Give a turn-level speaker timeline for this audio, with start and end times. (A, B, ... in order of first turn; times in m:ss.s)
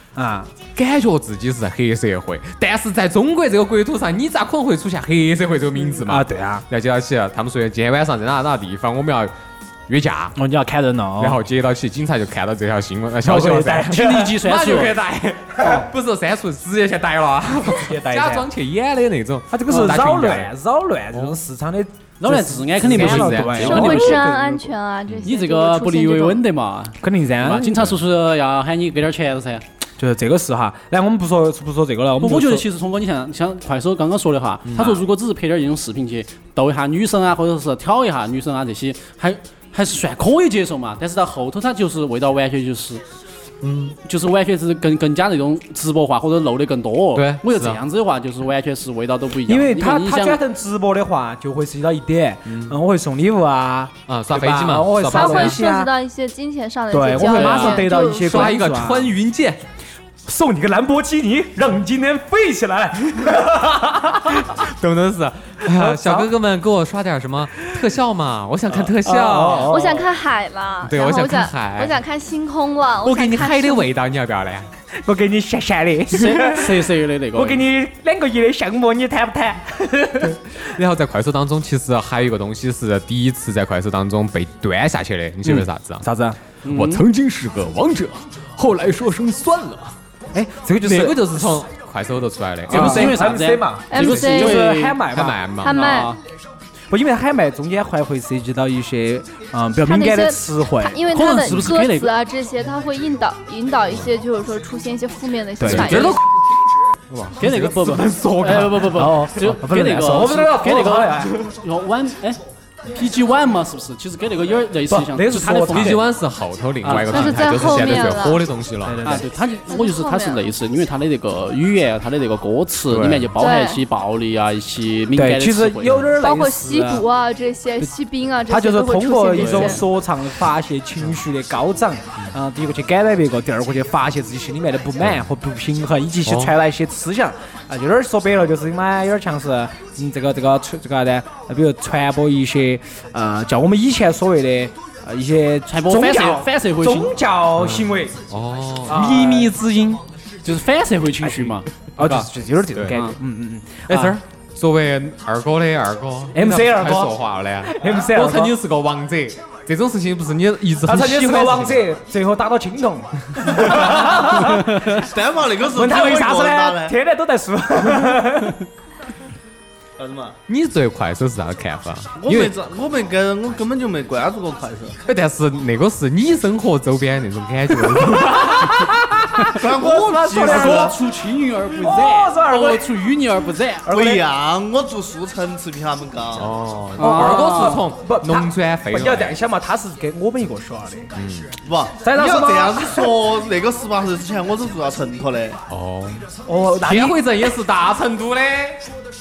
0:00.2-0:00.5 A
0:00.7-0:09.3 B
0:05.9-0:06.6 A
0:09.9-0:10.4 B
0:10.4-0:11.4 A
0:11.2-0:20.5 B
0:13.2-0:14.3 A
0:13.9-0:15.0 C
0:15.6-0:15.8 A
0:17.7-0:18.5 A
0:19.5-0:24.7 A
0:21.1-0:21.4 B
0:22.2-0:24.6 C
0:22.8-0:24.2 B
0:23.6-0:26.4 D
0:25.2-0:29.6 C
0:27.0-0:27.8 A
0:30.0-0:32.7 A
0:32.2-0:43.0 C
0:34.7-0:35.0 B
0:43.6-0:44.0 B
0:44.1-0:50.4 C
0:47.1-0:47.8 B
0:49.5-0:55.9 A
0:52.5-0:52.8 B
0:54.1-0:55.6 B
0:55.0-0:58.6 D
0:56.9-0:59.1 A
0:57.2-0:57.9 C
0:58.2-0:59.6 B
1:00.2-1:04.5 A
1:04.4-1:09.8 B
1:05.6-1:06.3 A
1:08.7-1:10.1 A
1:09.5-1:13.9 D
1:10.8-1:12.0 B
1:13.0-1:14.7 B
1:15.0-1:20.6 A
1:16.1-1:17.7 C
1:20.3-1:26.1 B
1:25.5-1:26.4 A
1:26.6-1:27.1 C
1:26.7-1:30.0 B
1:30.3-1:31.3 A
1:30.8-1:33.3 B
1:32.7-1:35.1 C
1:32.7-1:35.4 A
1:33.9-1:34.6 D
1:35.1-1:35.8 B
1:35.6-1:36.2 D
1:35.6-1:36.2 C
1:36.9-1:41.0 A
1:39.8-1:46.2 D
1:41.1-1:42.2 C
1:45.6-1:46.1 A
1:45.7-1:46.2 B
1:47.1-1:49.2 B
1:47.4-1:56.0 C
1:49.0-1:51.4 A
1:54.9-1:56.0 A
1:55.7-1:59.2 B
1:56.8-1:57.6 C
1:56.9-1:57.1 A
1:56.9-1:58.4 D
1:58.8-1:59.3 A
1:59.0-2:06.1 C
1:59.7-2:00.5 D
2:02.9-2:03.3 B
2:03.4-2:03.8 D
2:05.2-2:07.1 A
2:06.2-2:09.8 D
2:08.5-2:28.2 A
2:15.0-2:15.3 B
2:16.2-2:16.6 B
2:25.7-2:27.2 C
2:27.6-2:29.5 B
2:28.9-2:30.0 A
2:30.4-2:32.3 C
2:31.2-2:34.2 A
2:32.9-2:33.2 C
2:33.9-2:41.8 B
2:36.3-2:38.6 A
2:40.8-2:45.0 A
2:43.4-2:44.1 B
2:44.9-2:47.0 E
2:45.7-2:48.6 A
2:50.0-2:50.4 E
2:50.5-2:52.6 B
2:52.2-2:55.0 E
2:55.0-2:58.9 B
2:58.5-3:01.0 A
2:59.4-3:01.0 E
3:00.3-3:03.9 C
3:01.8-3:03.0 A
3:03.9-3:04.2 A
3:03.9-3:06.5 E
3:06.4-3:09.4 B
3:07.0-3:07.8 C
3:07.1-3:11.1 A
3:11.1-3:11.6 B
3:11.6-3:15.6 E
3:12.0-3:13.2 A
3:15.7-3:18.9 B
3:16.4-3:17.2 A